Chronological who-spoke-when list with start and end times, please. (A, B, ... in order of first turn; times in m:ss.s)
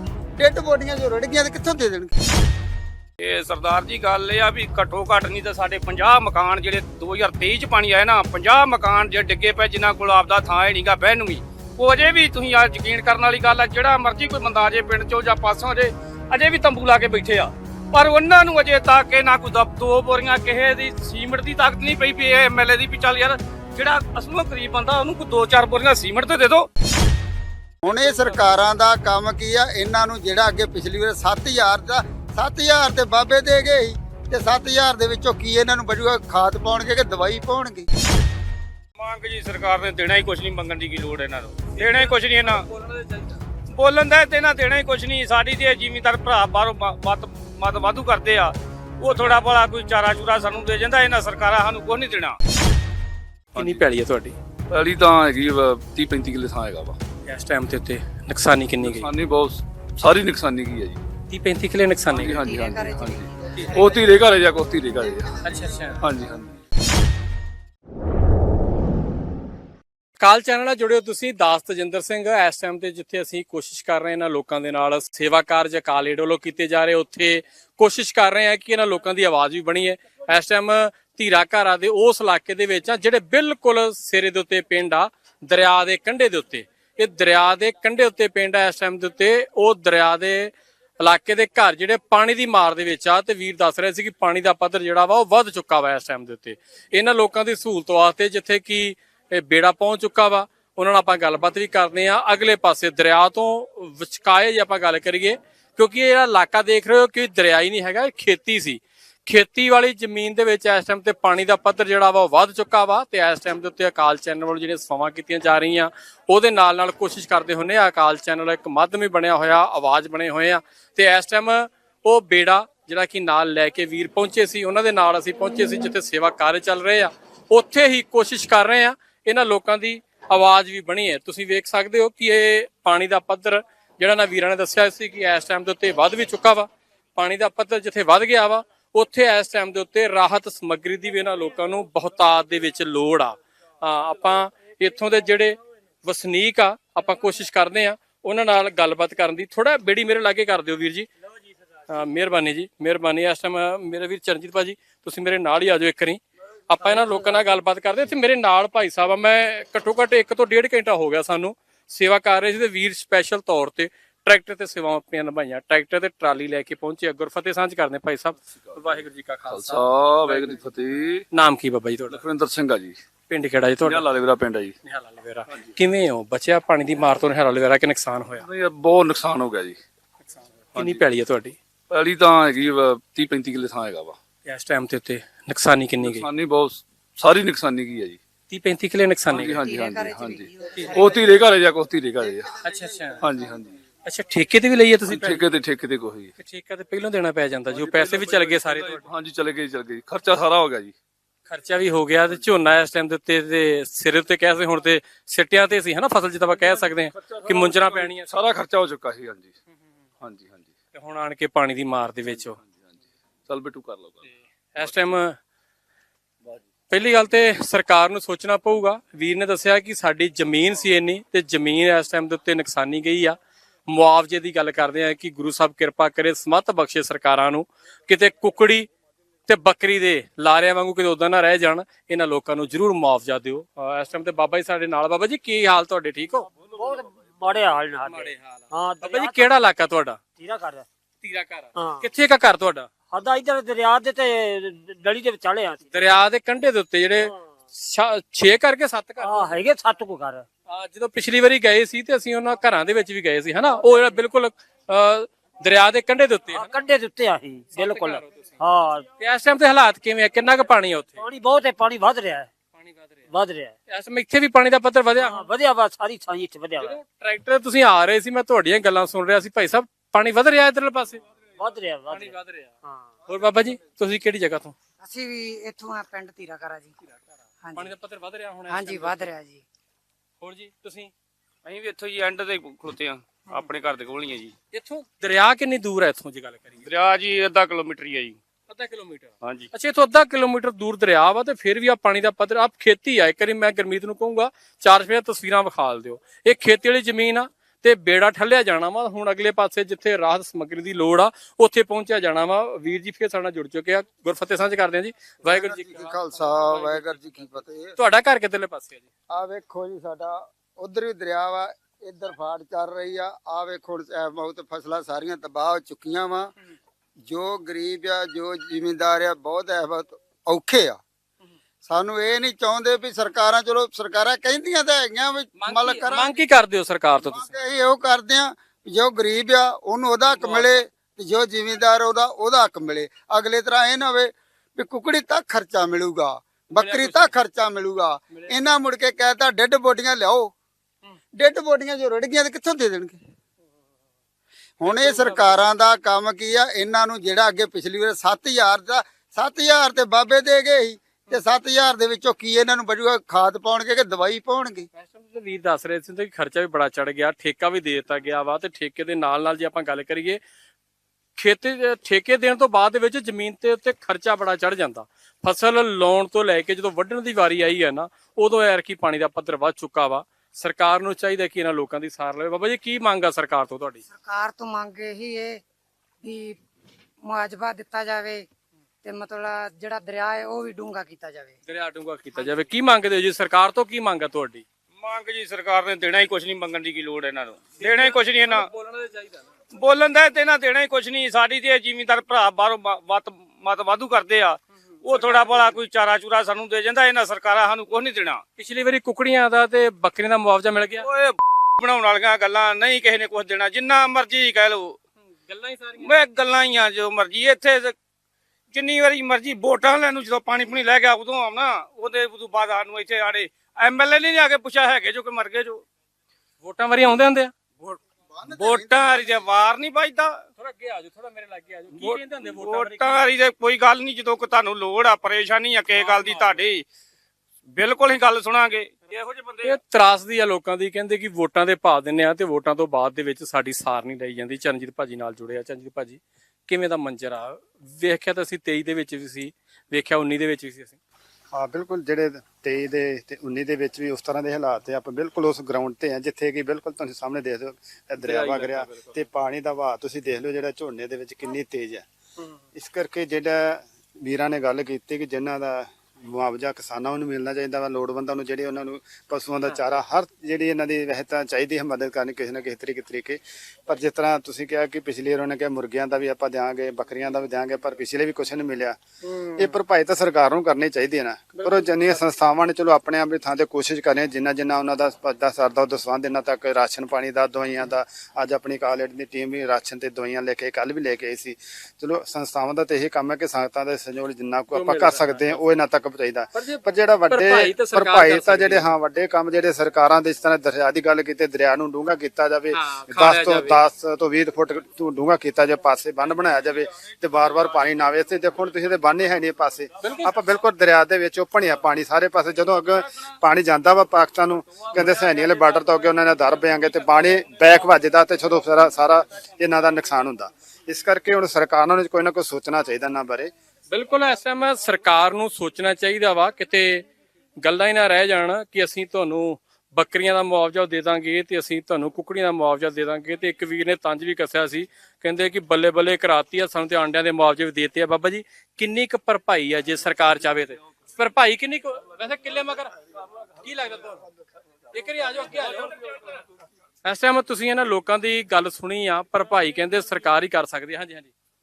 0:00.4-0:02.1 A
0:03.2-0:26.7 B
0:27.8-0:37.9 A
0:27.9-0:28.4 B
0:39.0-0:42.7 B
0:41.8-0:43.3 C
0:43.7-0:52.4 B
0:53.5-0:53.8 D
0:53.5-0:54.4 C
0:54.7-0:57.0 D
0:57.3-0:59.1 C
0:58.8-1:01.0 D
1:01.3-1:02.4 C
1:02.1-1:05.4 D
1:02.3-1:05.9 E
1:05.4-1:06.0 C
1:06.0-1:06.6 D
1:10.2-2:31.1 C
2:31.9-2:50.6 C
2:48.5-2:51.2 D
2:51.3-2:52.2 C
2:52.1-2:53.0 D
2:53.3-2:54.0 C
2:53.8-2:54.7 D
2:54.8-2:58.4 C
2:58.4-2:59.8 D
3:00.7-3:01.0 D
3:00.8-3:01.6 C
3:01.9-3:04.2 D
3:04.5-3:06.3 C
3:06.0-3:08.2 D
3:08.5-3:09.6 C
3:09.3-3:12.6 D
3:09.5-3:11.4 E
3:12.6-3:13.2 C
3:13.2-3:13.8 D
3:14.0-3:15.4 C
3:15.1-3:16.3 D
3:16.4-3:19.1 C
3:17.7-3:20.9 D
3:21.5-3:28.3 C
3:27.2-3:29.6 D
3:30.2-3:30.7 D
3:30.9-3:32.6 C
3:32.2-3:34.3 D
3:34.7-3:35.4 C
3:34.8-3:35.1 D
3:36.9-3:43.4 C
3:43.9-3:48.9 C
3:49.5-3:56.5 C
3:56.7-3:59.6 F
3:58.0-4:00.2 C
4:00.4-4:00.8 F
4:01.2-4:02.9 C
4:01.8-4:02.1 F
4:03.1-4:06.0 F
4:05.9-4:09.6 C
4:09.2-4:10.4 F
4:10.7-4:16.8 C
4:16.5-4:19.1 F
4:17.7-4:18.5 C
4:19.2-4:21.2 C
4:21.2-4:22.5 F
4:22.8-4:23.1 C
4:23.3-4:23.8 F
4:23.9-4:25.4 C
4:25.2-4:27.0 F
4:26.8-4:31.2 C
4:31.6-4:33.1 F
4:32.1-4:32.8 C
4:33.3-4:34.8 C
4:35.0-4:37.0 E
4:37.6-4:37.9 E
4:37.8-4:39.2 C
4:38.7-4:39.6 E
4:40.4-4:41.1 C
4:41.6-4:44.5 B
4:44.7-4:46.8 C
4:46.8-4:48.4 B
4:48.7-5:07.4 C
4:49.4-4:49.7 B
5:05.4-5:08.0 A
5:08.0-5:09.1 C
5:09.3-5:16.5 A
5:17.3-5:21.0 A
5:21.8-5:26.4 A
5:25.6-5:27.5 C
5:27.2-5:40.5 A
5:30.3-5:30.8 C
5:36.8-5:37.3 C
5:38.3-5:38.6 C
5:41.4-5:43.2 A
5:44.8-5:54.9 A
5:44.8-5:45.6 C
5:54.9-6:00.4 C
6:01.4-6:14.0 C
6:14.1-6:15.6 E
6:16.2-6:16.6 E
6:17.2-6:18.5 E
6:19.0-6:21.6 E
6:21.6-6:24.6 C
6:22.4-6:22.6 E
6:25.0-6:28.6 B
6:27.8-6:29.4 C
6:29.7-6:38.4 B
6:35.1-6:35.7 C
6:38.6-6:41.1 C
6:41.0-6:45.0 B
6:45.4-6:46.1 C
6:46.0-6:47.9 B
6:48.7-6:55.8 B
6:56.6-6:58.8 C
6:58.3-6:59.3 A
6:58.6-7:00.4 B
7:00.6-7:03.2 C
7:02.0-7:06.8 B
7:06.0-7:06.5 C
7:07.7-7:09.8 B
7:09.6-7:21.0 C
7:21.5-7:32.1 G
7:28.3-7:28.8 D
7:32.8-7:49.0 G
7:49.2-7:49.8 C
7:49.6-8:33.5 G
7:51.6-7:51.9 C
8:04.7-8:05.7 C
8:06.5-8:08.9 C
8:12.7-8:13.8 C
8:20.0-8:20.3 C
8:33.9-8:37.1 C
8:37.6-8:52.9 C
8:53.6-8:54.2 C
8:54.9-8:56.0 C
8:57.0-9:01.3 C